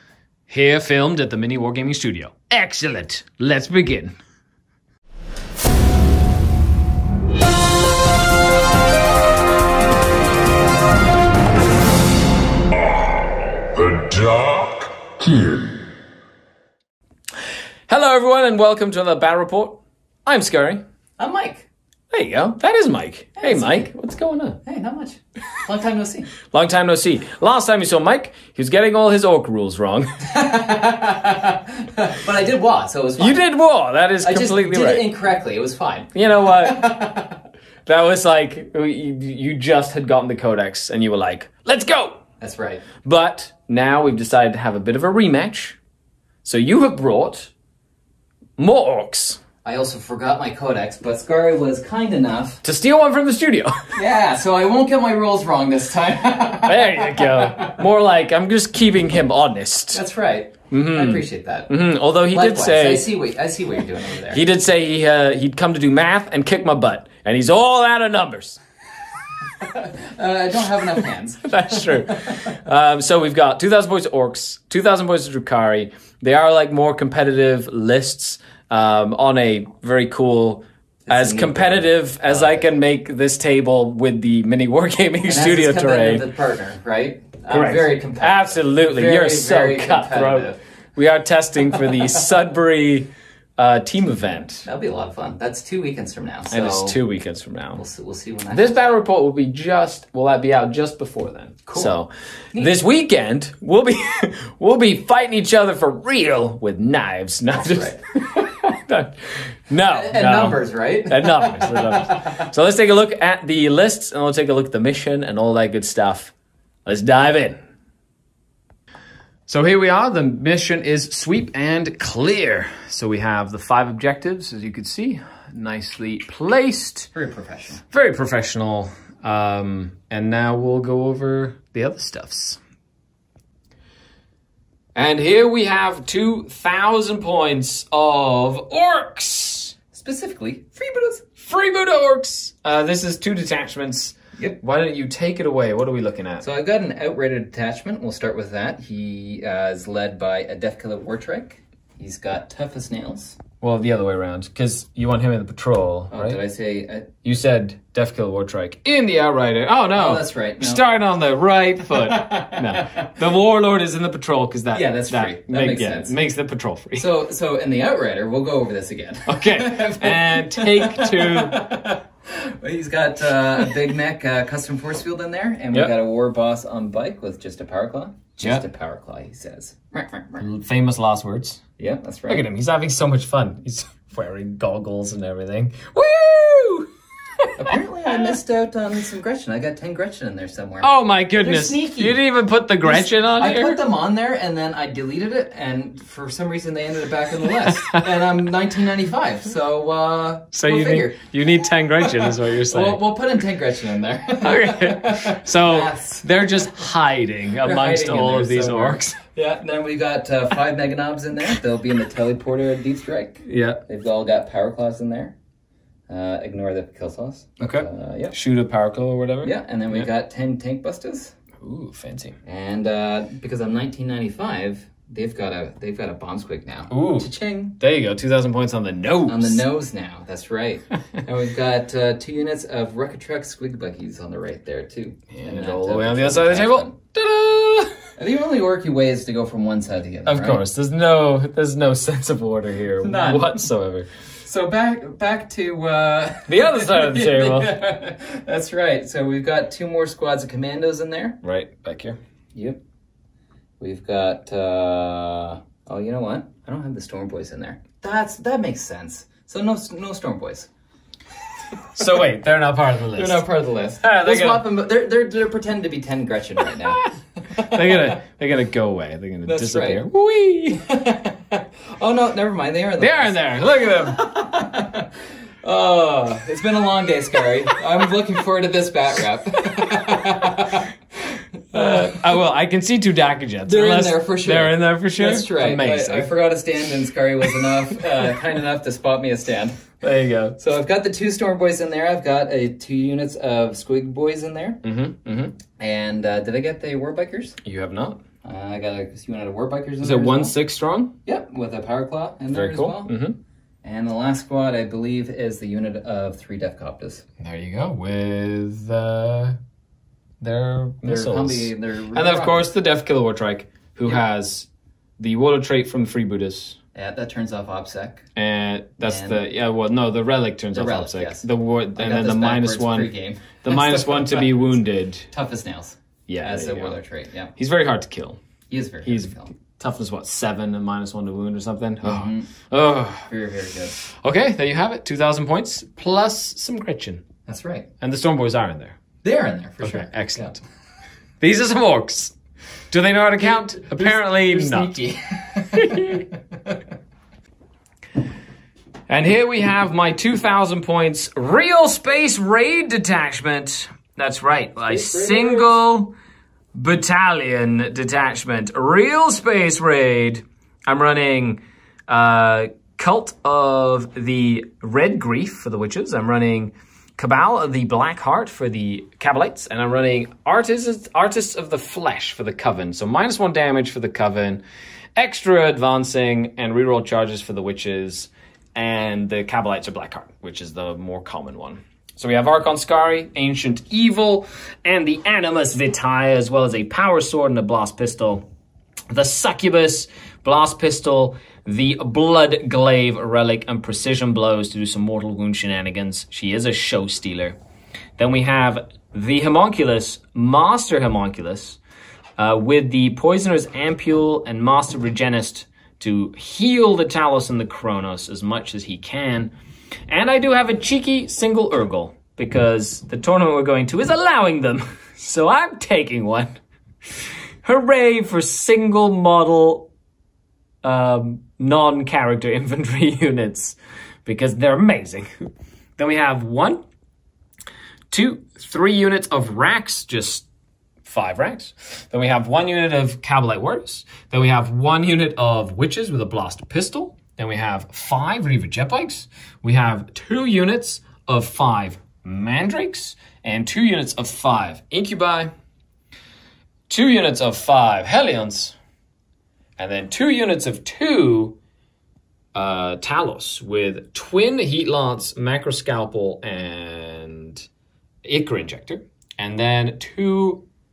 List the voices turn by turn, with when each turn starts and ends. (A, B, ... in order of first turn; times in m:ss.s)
0:00.5-0:04.1 A
0:13.8-0:15.6 A
0:17.9-0:20.8 A
0:21.2-0:21.6 B
0:22.1-0:24.6 A
0:23.4-0:23.9 B
0:24.6-0:26.3 B
0:26.5-0:30.3 A
0:30.2-0:33.4 B
0:33.2-0:35.1 A
0:34.2-0:37.4 B
0:36.1-0:37.1 A
0:37.8-0:42.2 A
0:42.4-0:42.8 B
0:43.0-0:45.8 A
0:46.4-0:47.5 A
0:48.6-0:49.4 A
0:49.6-0:52.6 B
0:52.6-0:53.8 A
0:53.9-0:57.8 B
0:56.6-1:00.0 A
0:59.9-1:01.7 B
1:00.7-1:03.1 A
1:02.3-1:04.4 B
1:04.3-1:08.6 A
1:09.6-1:12.3 B
1:11.4-1:26.2 A
1:21.1-1:22.6 B
1:25.2-1:30.6 B
1:27.5-1:34.6 A
1:34.6-1:37.0 B
1:36.5-1:37.8 A
1:37.8-1:38.8 B
1:38.5-1:56.3 A
1:41.7-1:41.9 B
1:47.5-1:48.0 B
1:49.8-1:52.5 B
1:56.8-1:57.6 A
1:59.5-2:07.1 A
2:07.1-2:07.8 B
2:07.9-2:12.6 A
2:14.9-2:19.8 A
2:19.9-2:21.2 B
2:21.4-2:26.4 A
2:26.4-2:33.4 B
2:33.6-2:36.4 A
2:36.1-2:37.1 B
2:37.2-2:47.0 A
2:39.9-2:40.8 B
2:41.9-2:43.1 B
2:44.7-2:46.1 B
2:47.0-3:00.5 B
2:49.2-2:51.7 A
3:00.4-3:01.6 A
3:01.8-3:02.4 B
3:02.3-3:06.9 A
3:07.4-3:08.4 A
3:07.6-3:12.2 B
3:10.8-3:13.8 A
3:12.8-3:21.2 B
3:17.7-3:18.0 A
3:20.5-3:23.0 A
3:22.0-3:26.3 B
3:24.4-3:29.2 A
3:27.6-3:35.4 B
3:33.4-3:33.8 A
3:36.1-3:38.3 B
3:37.6-3:40.1 A
3:39.4-3:41.3 B
3:41.6-3:42.3 A
3:42.4-3:47.8 B
3:46.9-3:47.3 A
3:47.8-3:49.6 A
3:49.2-3:56.9 B
3:55.3-3:58.0 A
3:58.2-4:00.6 B
4:00.2-4:04.1 A
4:03.0-4:03.6 B
4:04.4-4:11.4 B
4:06.5-4:07.8 A
4:11.4-4:12.2 A
4:12.5-4:12.8 B
4:13.8-4:20.7 B
4:22.0-4:23.4 A
4:23.2-4:28.0 B
4:24.0-4:24.6 A
4:27.5-4:31.0 A
4:29.4-4:30.0 B
4:30.7-4:35.1 B
4:33.0-4:34.3 A
4:35.6-4:42.2 B
4:39.7-4:40.7 A
4:41.7-4:46.3 A
4:43.6-4:49.8 B
4:50.0-4:50.6 A
4:50.6-4:54.8 B
4:54.8-4:55.6 A
4:55.8-4:57.6 B
4:57.6-4:58.2 A
4:58.4-5:00.6 B
5:00.0-5:01.1 A
5:01.2-5:03.1 B
5:02.5-5:03.4 A
5:03.8-5:07.2 B
5:07.4-5:09.6 A
5:10.4-5:14.7 A
5:11.0-5:12.7 B
5:15.2-5:16.8 A
5:16.9-5:18.2 B
5:18.4-5:23.1 A
5:19.0-5:19.4 B
5:20.7-5:24.5 B
5:23.6-5:25.3 A
5:25.3-5:27.5 B
5:26.3-5:27.0 A
5:27.6-5:28.4 A
5:28.7-5:29.5 B
5:29.0-5:33.2 A
5:32.0-5:32.5 B
5:33.2-5:34.0 B
5:34.2-5:37.2 A
5:37.5-5:37.9 B
5:38.0-5:39.0 A
5:39.2-5:40.5 B
5:39.8-5:40.6 A
5:41.4-5:42.3 A
5:42.9-5:44.9 A
5:43.6-5:46.8 B
5:45.7-5:46.2 A
5:49.1-5:56.1 A
5:54.9-5:55.8 B
5:56.7-6:14.6 A
6:15.2-6:28.4 A
6:29.1-6:37.6 A
6:38.2-6:41.8 A
6:42.4-6:49.5 A
6:50.1-6:56.6 A
6:57.6-6:59.9 A
7:00.8-7:05.3 A
7:06.0-7:06.8 A
7:08.1-7:10.4 A
7:11.0-7:25.5 A
7:26.9-7:28.7 A
7:29.8-7:31.6 A
7:32.5-7:37.6 A
7:38.2-7:40.6 A